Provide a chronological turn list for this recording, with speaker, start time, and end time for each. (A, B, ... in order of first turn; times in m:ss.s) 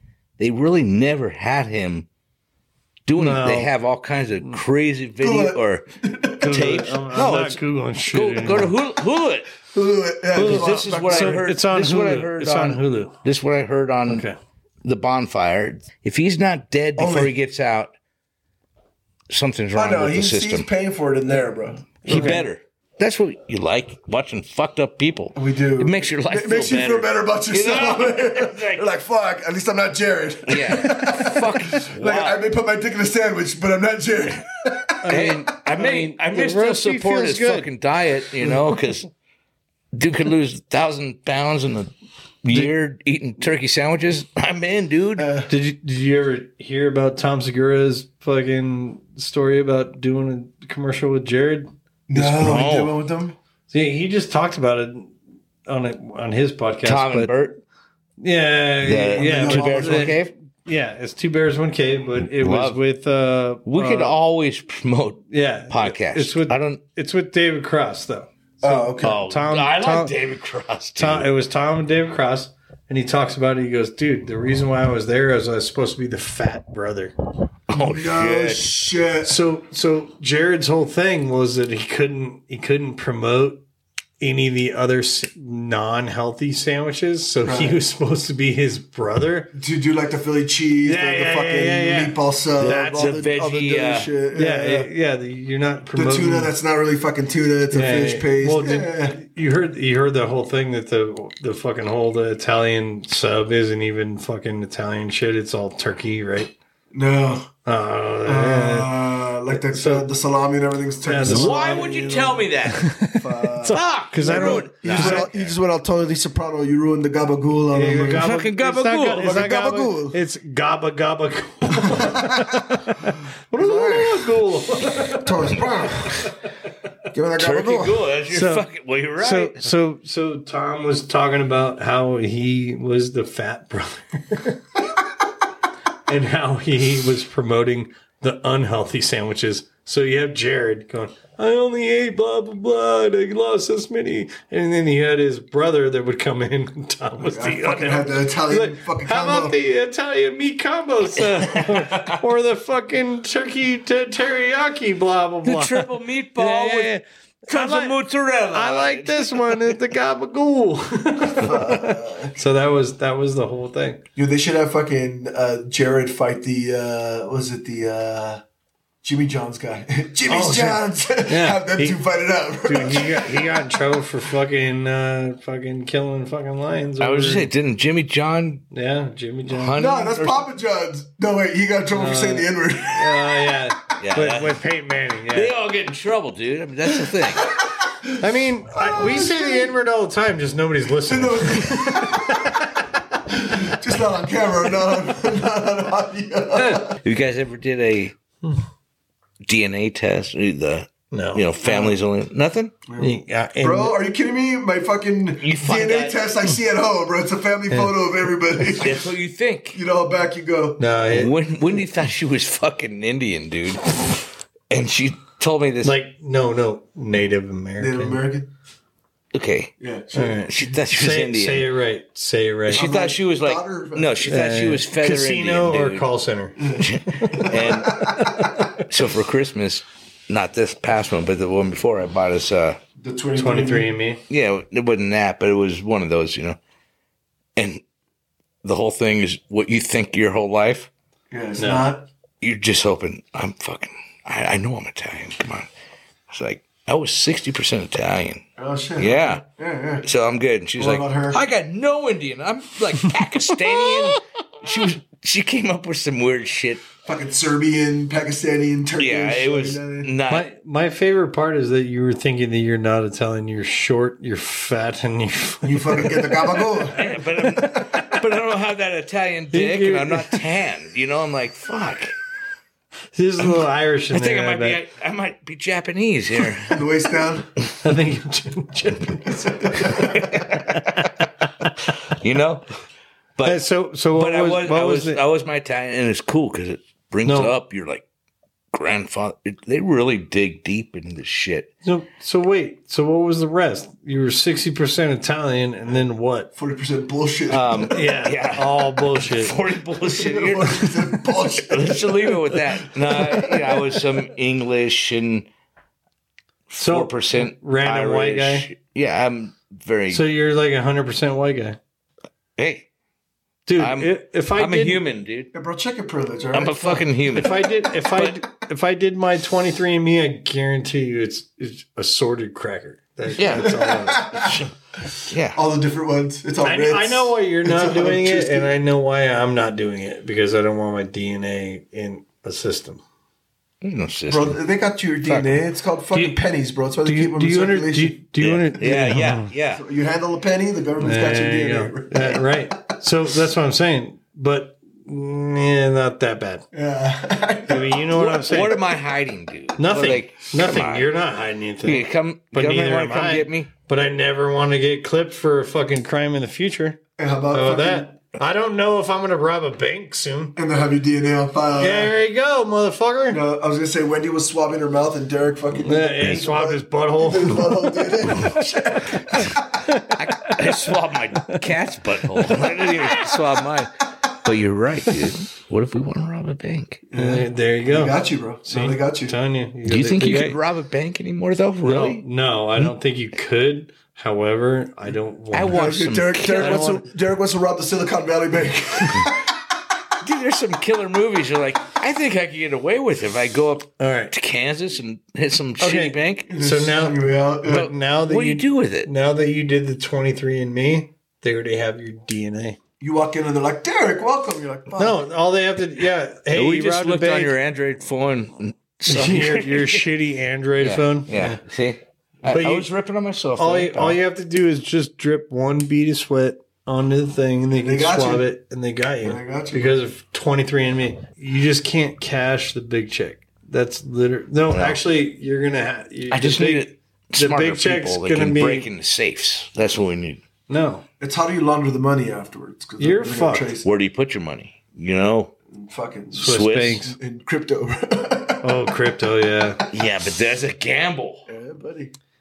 0:00.4-0:02.1 A
0:03.0-0:05.9 A
0:03.1-0:03.7 B
0:05.2-0:06.8 C
0:06.4-0:08.7 B
0:06.4-0:09.5 A
0:09.7-0:11.5 C
0:10.3-0:14.2 A
0:10.4-0:13.2 B
0:14.1-0:14.4 B
0:14.8-0:17.9 A
0:17.0-0:17.3 C
0:19.3-0:20.7 A
0:19.7-0:22.4 C
0:22.0-0:28.9 A
0:22.1-0:22.4 B
0:25.3-0:35.1 C
0:30.5-0:32.4 A
0:35.0-0:37.7 B
0:35.1-0:39.1 A
0:39.9-0:41.9 A
0:42.4-0:45.3 A
0:45.2-0:45.5 C
0:45.5-0:51.7 B
0:52.1-0:53.4 C
0:52.1-0:52.9 A
0:53.7-0:55.1 B
0:55.7-0:57.3 B
0:56.8-0:57.6 A
0:58.2-1:04.1 B
0:58.8-1:00.3 A
0:59.1-1:00.2 C
1:02.4-1:02.8 A
1:03.6-1:06.8 A
1:05.3-1:10.1 B
1:08.6-1:09.2 C
1:09.0-1:11.3 A
1:11.0-1:17.1 B
1:17.7-1:18.6 A
1:17.7-1:19.4 C
1:19.2-1:23.6 B
1:24.2-1:29.5 B
1:27.4-1:27.8 C
1:29.6-1:34.9 C
1:30.8-1:33.1 B
1:32.6-1:34.1 A
1:34.3-1:36.5 B
1:35.9-1:39.2 C
1:37.7-1:46.5 B
1:46.9-1:47.5 C
1:47.6-1:48.9 B
1:48.2-1:51.9 C
1:49.5-1:50.1 B
1:51.0-1:55.3 B
1:51.2-1:53.0 A
1:53.1-1:58.3 C
1:53.7-1:55.5 A
1:57.7-2:05.3 B
1:58.2-1:59.4 A
1:59.1-2:00.2 C
2:01.8-2:02.6 C
2:03.5-2:04.4 C
2:05.0-2:06.3 C
2:07.1-2:08.0 C
2:07.4-2:09.7 A
2:08.3-2:14.6 B
2:16.1-2:38.0 B
2:27.2-2:29.6 C
2:31.4-2:32.2 A
2:35.4-2:36.9 A
2:37.5-2:39.8 A
2:38.5-2:44.0 B
2:41.4-2:42.3 C
2:44.2-2:48.4 C
2:49.0-2:53.5 C
2:50.3-2:52.0 B
2:52.6-2:57.5 B
2:57.0-2:58.6 A
2:58.7-2:59.8 B
2:59.5-3:00.4 A
2:59.7-3:03.5 C
3:01.9-3:05.5 B
3:04.0-3:04.6 A
3:05.3-3:07.5 A
3:08.2-3:12.9 B
3:08.9-3:09.6 C
3:11.0-3:12.6 C
3:13.3-3:17.0 C
3:16.9-3:18.1 A
3:19.4-3:22.7 A
3:21.1-3:21.4 B
3:21.6-3:22.0 C
3:22.8-3:29.1 C
3:23.0-3:23.9 B
3:25.4-3:26.2 A
3:28.8-3:29.8 A
3:29.7-3:30.9 C
3:30.8-3:31.3 B
3:31.1-3:33.9 A
3:34.7-3:35.9 A
3:35.8-3:38.2 B
3:37.8-3:38.5 C
3:39.3-3:39.7 A
3:39.8-3:40.5 C
3:40.1-3:42.8 B
3:40.5-3:41.7 A
3:42.7-3:46.1 A
3:42.7-3:44.3 C
3:44.2-3:48.8 B
3:46.6-3:48.1 C
3:46.8-3:48.2 A
3:48.8-3:52.8 A
3:53.0-3:53.9 C
3:53.4-3:54.2 B
3:54.3-3:56.6 A
3:57.6-3:57.8 A
3:58.6-4:00.9 A
4:01.3-4:02.0 C
4:01.6-4:01.9 B
4:02.4-4:05.7 A
4:06.3-4:08.4 A
4:08.6-4:10.0 C
4:09.0-4:09.4 A
4:10.0-4:16.8 A
4:10.8-4:11.4 C
4:17.0-4:20.1 C
4:19.0-4:20.5 A
4:20.3-4:28.2 B
4:25.6-4:27.0 C
4:26.9-4:32.2 A
4:29.5-4:30.4 B
4:33.1-4:34.8 B
4:34.1-4:36.8 A
4:36.6-4:37.5 C
4:37.8-4:41.2 B
4:39.7-4:40.3 C
4:39.8-4:41.1 A
4:42.1-4:42.6 A
4:43.4-4:43.6 A
4:43.4-4:45.2 B
4:44.1-4:48.0 A
4:47.2-4:47.5 B
4:48.7-4:51.7 A
4:51.8-4:56.5 B
4:56.6-4:58.0 C
4:57.5-5:00.9 A
4:57.9-4:59.5 B
5:00.1-5:02.4 C
5:01.6-5:05.5 A
5:06.7-5:10.2 A
5:06.7-5:08.7 B
5:10.1-5:11.8 B
5:12.6-5:12.9 A
5:13.6-5:15.0 B
5:13.8-5:15.5 A
5:15.5-5:17.1 C
5:16.5-5:18.4 A
5:17.3-5:24.7 B
5:23.4-5:23.8 A
5:23.6-5:24.6 C
5:25.3-5:25.6 A
5:25.5-5:28.7 C
5:26.6-5:33.0 B
5:33.8-5:34.6 A
5:34.3-5:38.2 C
5:36.1-5:36.4 B
5:37.0-5:39.5 B
5:38.4-5:39.8 A
5:39.8-5:43.0 C
5:41.0-5:46.6 B
5:46.7-5:48.1 C
5:47.7-5:48.8 B
5:48.1-5:51.1 A
5:49.8-5:57.0 B
5:51.8-5:53.7 A
5:57.2-5:58.1 C
5:57.5-6:00.6 B
6:00.6-6:02.1 C
6:01.8-6:03.4 B
6:03.3-6:09.6 C
6:05.8-6:10.8 B
6:10.1-6:13.9 A
6:12.4-6:13.3 B
6:14.4-6:17.0 A
6:17.1-6:19.3 C
6:17.1-6:20.6 B
6:19.8-6:22.2 A
6:21.8-6:25.8 B
6:25.5-6:26.9 A
6:25.7-6:29.4 C
6:26.6-6:27.0 B
6:30.2-6:36.5 A
6:34.0-6:34.3 B
6:35.8-6:42.8 B
6:36.5-6:37.9 C
6:37.7-6:39.1 A
6:43.0-6:45.2 C
6:45.0-6:47.5 B
6:46.5-6:50.1 A
6:49.1-6:51.6 B
6:50.8-6:54.2 A
6:52.4-6:52.9 B
6:53.6-7:08.9 B
6:57.7-6:58.5 C
6:59.2-6:59.9 C
7:04.7-7:05.0 A
7:06.3-7:10.4 A
7:10.7-7:11.0 B
7:11.2-7:13.8 C
7:13.0-7:13.7 B
7:13.8-7:15.5 A
7:15.7-7:18.9 C
7:16.3-7:17.1 B
7:16.4-7:17.0 A
7:18.6-7:19.8 B
7:19.9-7:21.4 A
7:21.5-7:22.1 C